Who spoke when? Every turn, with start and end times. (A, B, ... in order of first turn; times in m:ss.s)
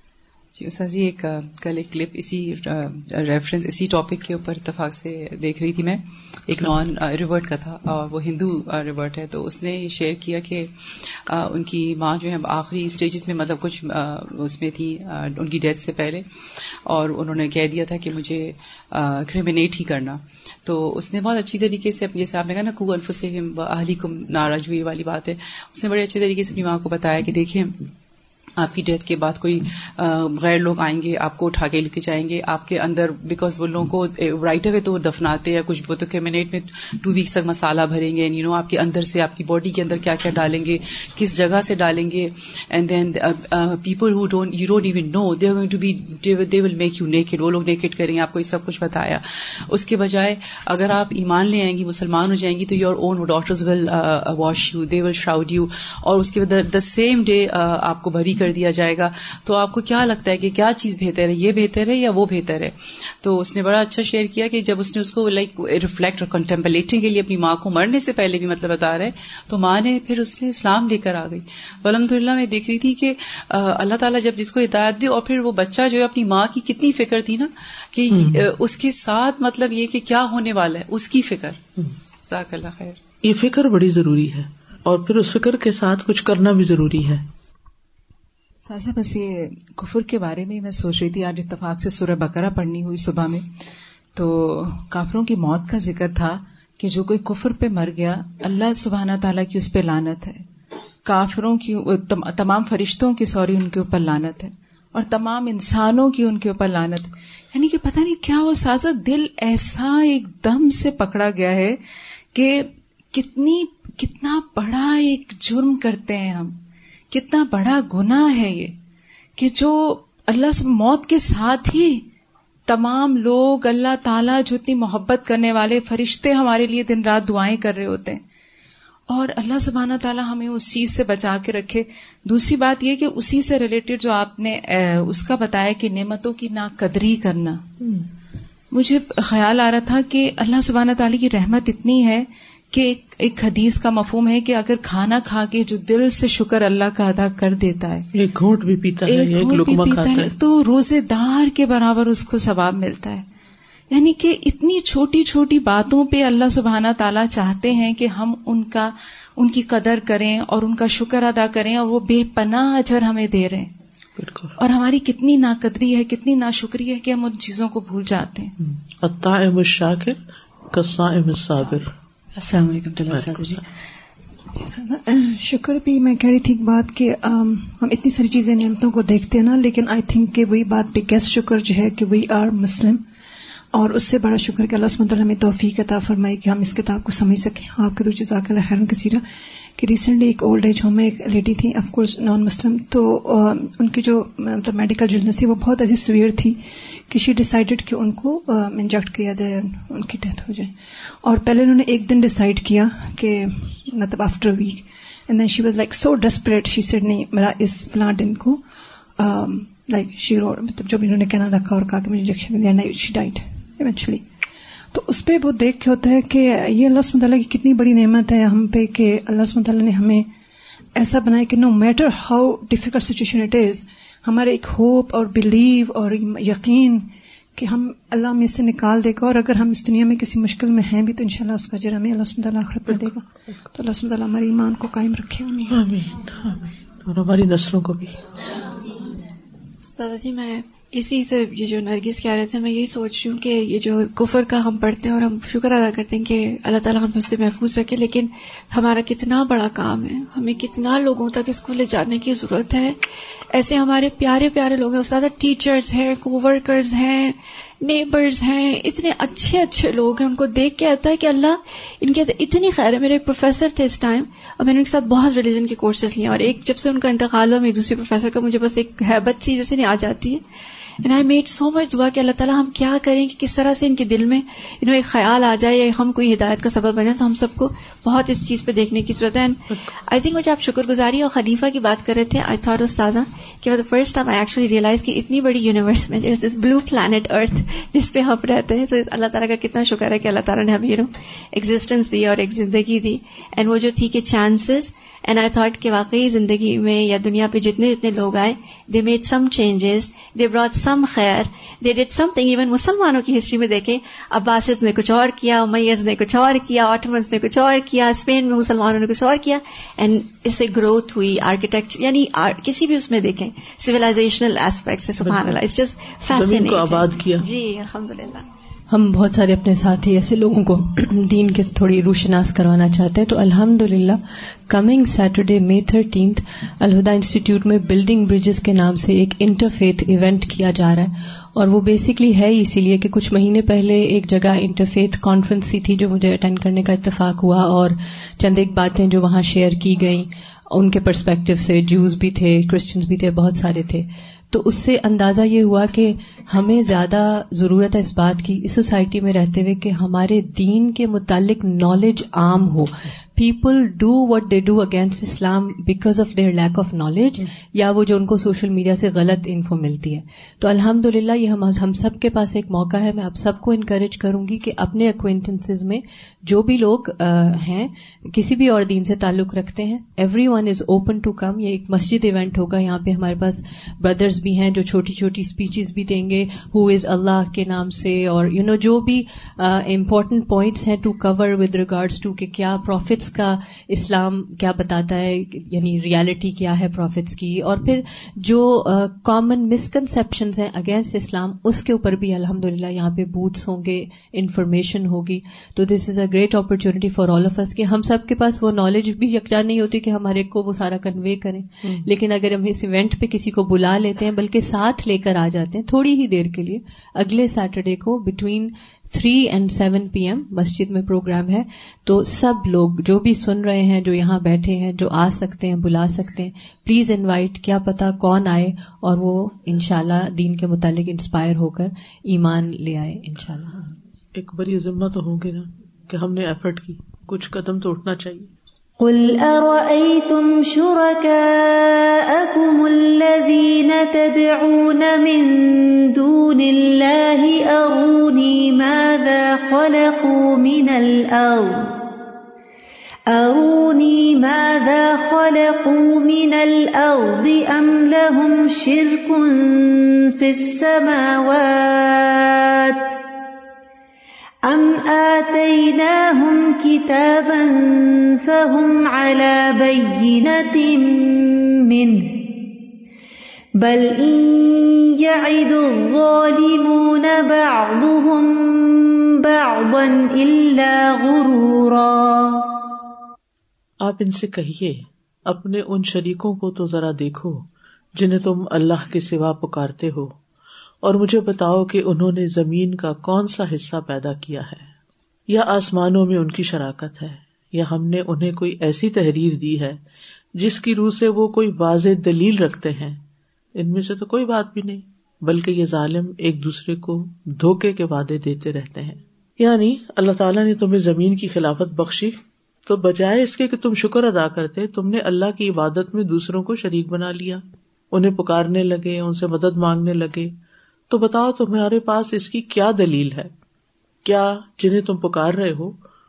0:00.6-0:10.7 A
0:11.3-0:27.9 A
0:28.6-1:21.6 A
1:18.1-1:18.4 B
1:22.2-1:23.0 A
1:23.2-1:27.3 B
1:28.6-1:33.4 C
1:34.2-1:40.4 C
1:41.0-1:51.8 C
1:52.3-1:56.6 C
1:57.1-1:58.7 C
1:59.4-2:02.0 C
2:02.7-2:08.2 C
2:09.1-2:17.6 C
2:18.7-2:28.1 C
2:28.1-2:30.3 B
2:29.1-2:33.2 C
2:33.9-2:43.7 C
2:44.2-2:44.6 B
2:44.6-2:48.5 C
2:48.6-2:51.9 B
2:52.4-2:53.6 D
2:53.1-2:53.6 B
2:54.6-3:03.0 E
3:03.7-3:09.2 E
3:09.8-3:16.6 E
3:17.1-3:28.6 E
3:29.2-3:34.2 E
3:34.9-3:40.3 E
3:41.0-3:55.8 E
3:55.7-3:58.2 B
4:00.0-4:13.0 F
4:13.5-4:30.4 F
4:31.0-5:18.4 F
5:15.2-5:15.6 B
5:16.3-5:17.4 B
5:18.9-5:24.2 D
5:24.7-7:03.9 D
7:04.4-7:08.5 B
7:09.0-7:21.9 G
7:23.3-7:33.1 G
7:34.6-7:42.5 G
7:43.8-7:52.6 G
7:54.0-8:00.4 B
8:01.0-8:04.9 B
8:05.5-8:10.0 B
8:10.6-8:13.2 B
8:13.8-8:30.5 B
8:31.1-8:33.5 B
8:34.2-8:36.0 B